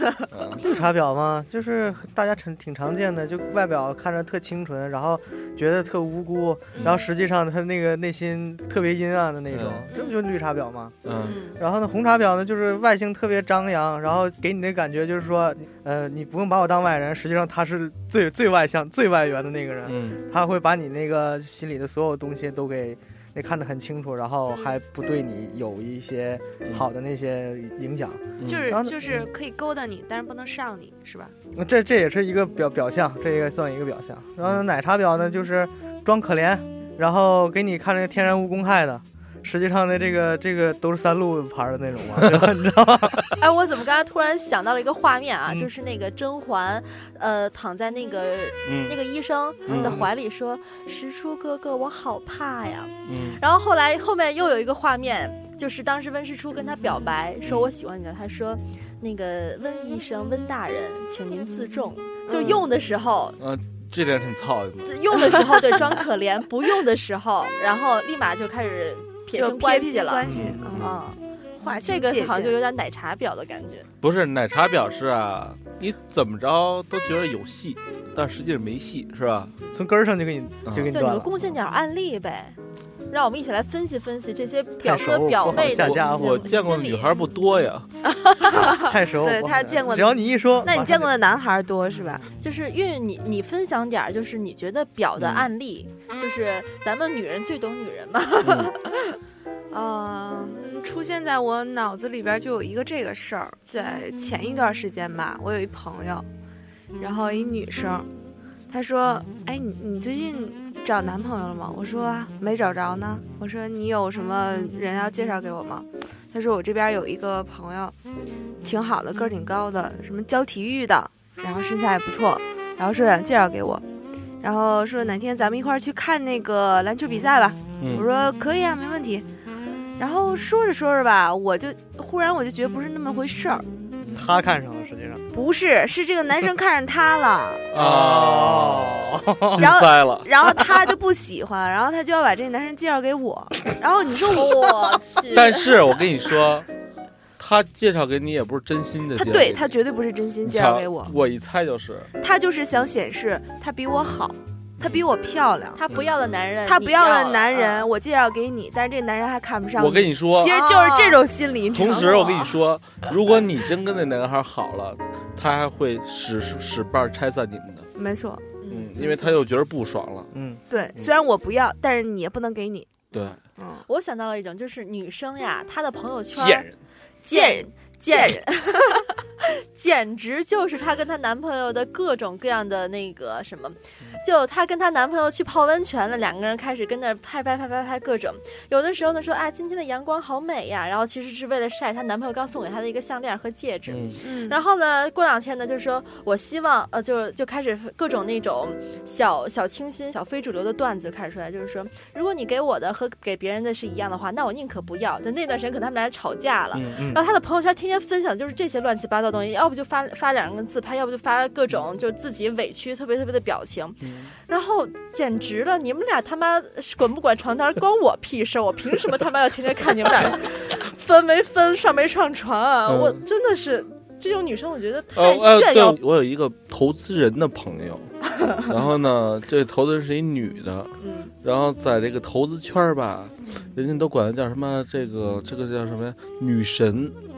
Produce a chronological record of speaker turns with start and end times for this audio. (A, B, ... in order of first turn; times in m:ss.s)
0:00.3-0:00.6 A
0:00.6-0:11.0 B
0:06.8-0:07.0 C
0:06.8-0:07.0 A
0:09.5-0:09.9 A
0:11.0-0:11.4 A
0:11.2-0:11.6 D
0:11.6-0:29.3 B
0:19.8-0:20.2 A
0:28.4-0:28.7 A
0:28.4-0:31.4 C
0:31.6-0:43.4 B
0:42.2-0:42.5 A
0:43.4-1:03.4 D
0:48.6-0:49.0 A
0:49.7-0:50.1 A
0:49.7-0:50.1 B
0:53.1-0:53.4 A
0:57.4-0:57.7 A
1:02.3-1:02.6 C
1:03.4-1:04.9 A
1:04.8-1:11.2 D
1:09.3-1:11.0 C
1:10.3-1:10.6 B
1:10.3-1:11.0 A
1:11.6-1:12.6 C
1:11.7-1:13.9 D
1:14.0-1:19.5 A
1:19.7-1:21.3 B
1:20.7-1:20.9 A
1:20.9-1:22.6 D
1:23.1-1:27.1 D
1:24.8-1:26.4 B
1:25.6-1:27.9 A
1:28.2-1:32.2 C
1:28.7-1:31.1 B
1:32.4-1:39.2 D
1:35.2-1:35.5 A
1:38.4-1:38.7 A
1:39.7-1:46.3 C
1:47.0-1:48.1 C
1:48.7-1:58.0 C
1:58.6-2:03.8 C
2:04.4-2:09.3 C
2:07.8-2:08.1 A
2:10.0-2:13.7 C
2:14.0-2:14.3 A
2:14.1-2:15.2 B
2:15.3-2:17.7 C
2:17.7-2:20.3 A
2:17.8-2:19.6 B
2:19.5-2:24.8 C
2:24.1-2:25.8 D
2:25.3-2:26.7 A
2:27.4-2:29.8 A
2:29.2-2:31.2 C
2:30.4-2:32.1 A
2:32.2-2:35.8 C
2:34.8-2:35.0 A
2:35.8-2:37.9 D
2:36.7-2:42.6 C
2:39.8-2:40.6 A
2:40.4-2:41.2 D
2:41.7-2:47.9 A
2:48.0-2:48.4 C
2:48.6-2:49.2 D
2:48.7-2:50.3 A
2:49.0-2:49.3 C
2:50.3-2:50.6 B
2:50.7-2:53.0 C
2:53.1-2:53.4 A
2:53.6-2:53.8 C
2:53.9-2:56.7 D
2:56.3-2:56.8 A
2:57.2-3:46.0 D
2:57.3-2:58.5 C
3:13.9-3:14.2 A
3:14.2-3:14.6 C
3:26.7-3:27.0 A
3:34.0-3:34.3 A
3:42.9-3:43.2 A
3:45.2-3:57.2 A
3:51.0-3:51.3 D